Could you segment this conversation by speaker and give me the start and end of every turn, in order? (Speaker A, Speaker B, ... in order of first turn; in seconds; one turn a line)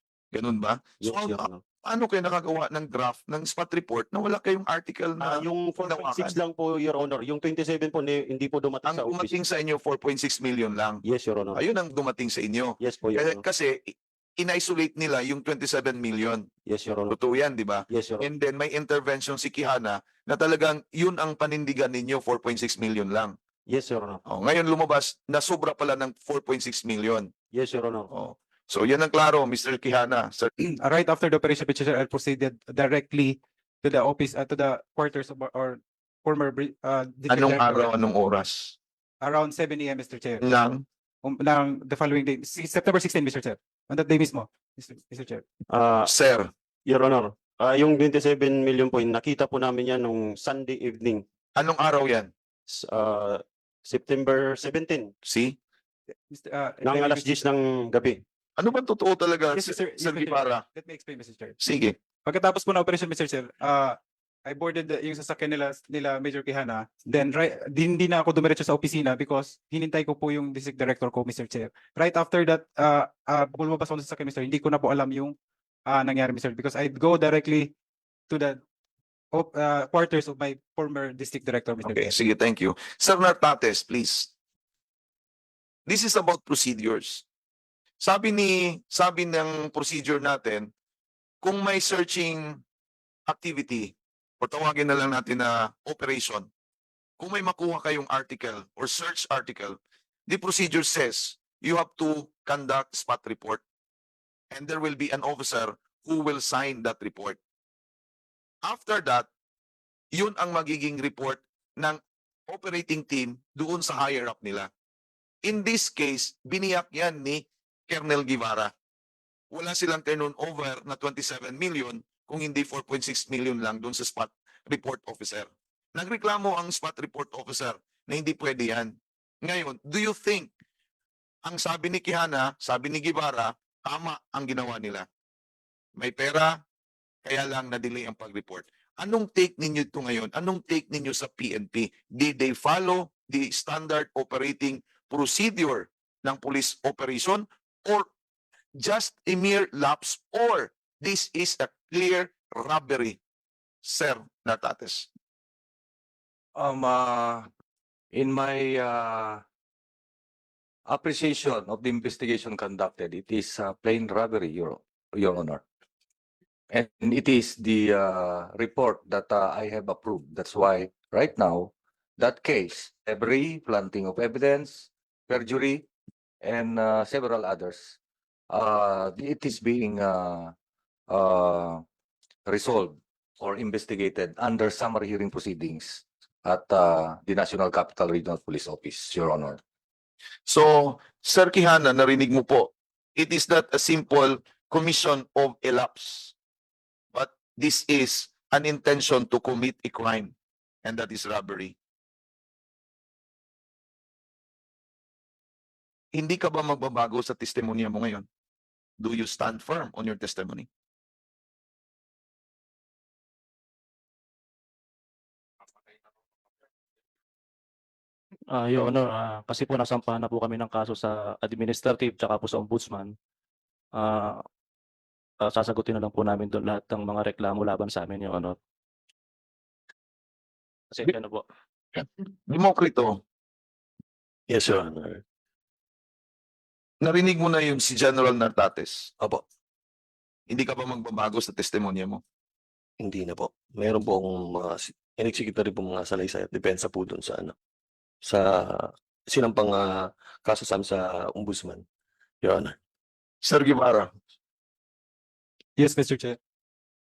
Speaker A: 0.3-6.3
Speaker B: 1.0-1.6
Speaker B: 5.2-9.3
Speaker A: 8.8-16.4
Speaker B: 11.0-11.6
Speaker B: 12.8-13.4
Speaker B: 16.7-17.1
Speaker A: 17.1-23.3
Speaker B: 17.9-18.2
Speaker B: 23.7-24.2
Speaker A: 24.3-27.3
Speaker B: 27.5-28.1
Speaker A: 28.1-30.5
Speaker C: 30.6-37.9
Speaker A: 37.3-38.8
Speaker C: 39.2-40.4
Speaker A: 40.4-40.8
Speaker C: 41.2-45.4
Speaker B: 45.7-46.1
Speaker A: 46.0-46.5
Speaker B: 46.9-51.2
Speaker A: 51.5-52.3
Speaker B: 52.7-55.1
Speaker A: 55.2-55.5
Speaker C: 56.3-57.4
Speaker B: 56.8-58.2
Speaker A: 58.6-60.6
Speaker C: 59.5-61.6
Speaker A: 61.6-61.9
Speaker C: 62.2-64.0
Speaker C: 64.5-75.3
Speaker C: 75.9-77.7
Speaker C: 78.3-78.6
Speaker C: 79.3-82.1
Speaker A: 81.8-84.3
Speaker A: 85.9-87.2
Speaker A: 88.0-90.7
Speaker A: 91.4-92.6
Speaker A: 93.3-96.5
Speaker A: 97.2-103.6
Speaker A: 104.5-107.4
Speaker A: 108.6-109.3
Speaker A: 110.1-114.7
Speaker A: 115.4-118.7
Speaker A: 119.5-130.5
Speaker A: 131.4-135.1
Speaker A: 136.0-136.6
Speaker A: 137.2-148.1
Speaker A: 148.8-153.2
Speaker A: 153.8-155.1
Speaker D: 156.5-157.5
Speaker D: 158.1-159.4
Speaker D: 160.9-165.6
Speaker D: 166.7-175.9
Speaker D: 176.4-177.9
Speaker D: 178.5-180.5
Speaker D: 181.1-181.8
Speaker D: 182.4-189.6
Speaker A: 190.5-196.3
Speaker A: 197.1-200.3
Speaker A: 200.8-201.7
Speaker A: 206.1-208.2
Speaker A: 209.0-210.7
Speaker E: 218.5-223.1
Speaker E: 223.9-224.4
Speaker E: 225.4-228.6
Speaker E: 230.9-231.4
Speaker A: 231.9-233.2
Speaker F: 234.5-235.2
Speaker A: 237.0-239.1
Speaker A: 240.5-242.2
Speaker F: 243.0-247.5
Speaker F: 248.2-251.8
Speaker F: 252.4-252.8
Speaker A: 253.4-254.1
Speaker C: 255.8-256.4